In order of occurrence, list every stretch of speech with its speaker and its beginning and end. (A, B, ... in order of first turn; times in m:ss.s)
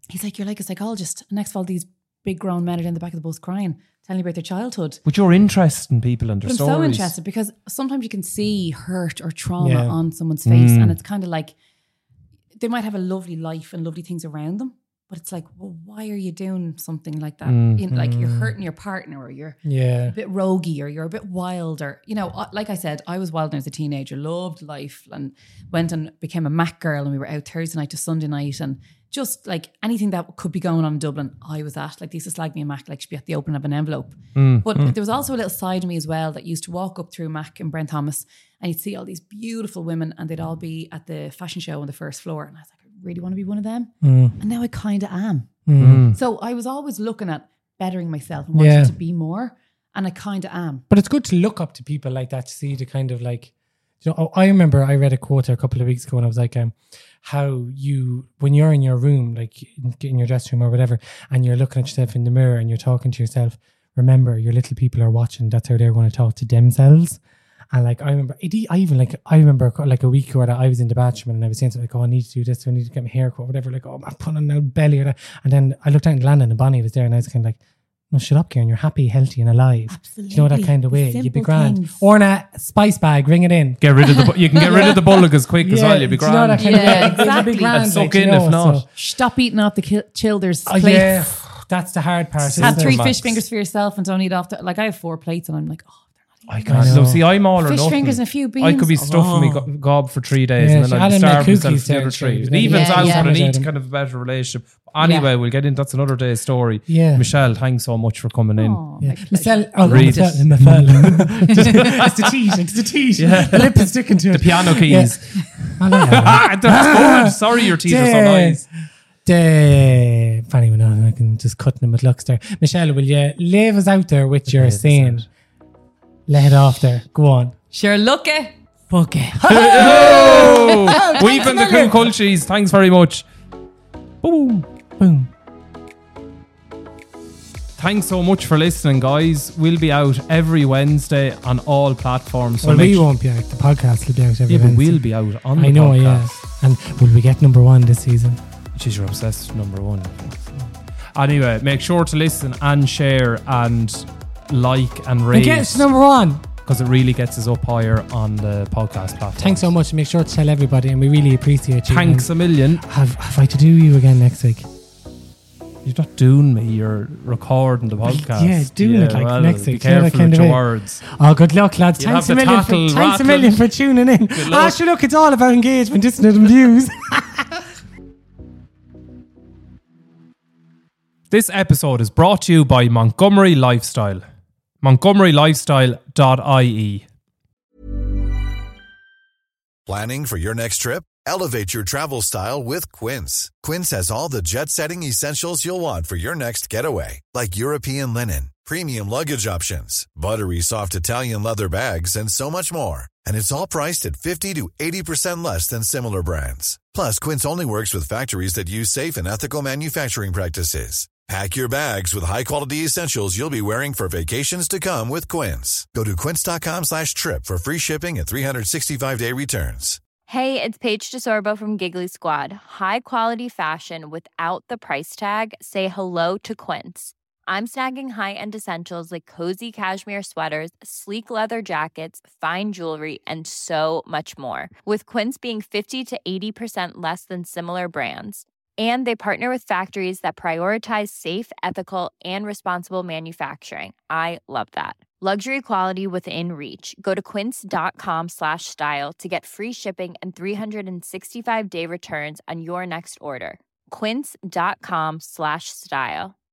0:00.1-0:05.0 A
0:05.1-0:07.1 B
0:06.4-0:11.6 A
0:09.6-0:10.0 C
0:10.5-0:11.0 B
0:12.6-0:45.5 A
0:17.4-0:17.8 B
0:17.9-0:18.6 C
0:19.6-0:20.1 C
0:34.4-0:34.6 B
0:44.0-0:44.4 C
0:45.7-0:46.1 C
0:45.8-0:46.2 B
0:46.1-0:50.8 A
0:48.6-0:48.9 C
0:50.9-1:07.2 C
1:07.7-1:17.6 C
1:18.1-1:24.0 C
1:19.9-1:22.0 A
1:23.8-1:28.9 B
1:24.6-1:25.1 C
1:25.6-1:28.9 C
1:26.6-1:27.9 A
1:29.0-1:31.3 A
1:30.7-1:33.1 C
1:32.4-1:33.4 B
1:32.6-1:39.4 A
1:36.5-1:48.8 B
1:36.7-1:37.2 C
1:39.3-1:39.7 C
1:40.6-1:43.7 C
1:42.6-1:43.3 A
1:45.0-1:45.3 A
1:46.9-1:47.2 C
1:48.6-1:50.8 A
1:49.0-1:55.2 C
1:49.8-1:52.1 B
1:51.5-1:51.8 A
1:53.2-1:58.6 B
1:55.8-1:58.7 C
1:59.2-2:05.3 C
2:04.5-2:05.3 B
2:06.3-2:07.6 C
2:07.7-2:11.6 A
2:09.0-2:12.0 C
2:09.5-2:13.3 B
2:14.2-2:14.7 B
2:15.0-2:15.3 C
2:17.8-2:23.0 B
2:22.6-2:25.0 C
2:24.5-2:26.4 B
2:25.6-2:28.4 C
2:28.8-2:30.4 B
2:31.2-2:35.9 B
2:35.3-2:36.4 C
2:36.7-2:39.7 B
2:39.4-2:42.3 C
2:41.9-2:42.8 B
2:42.8-2:44.7 C
2:45.8-2:51.0 B
2:48.0-2:57.6 C
2:52.0-2:53.6 B
2:54.3-2:54.8 B
3:01.3-3:04.2 B
3:04.8-3:07.1 B
3:09.9-3:40.0 D
3:40.3-4:16.4 E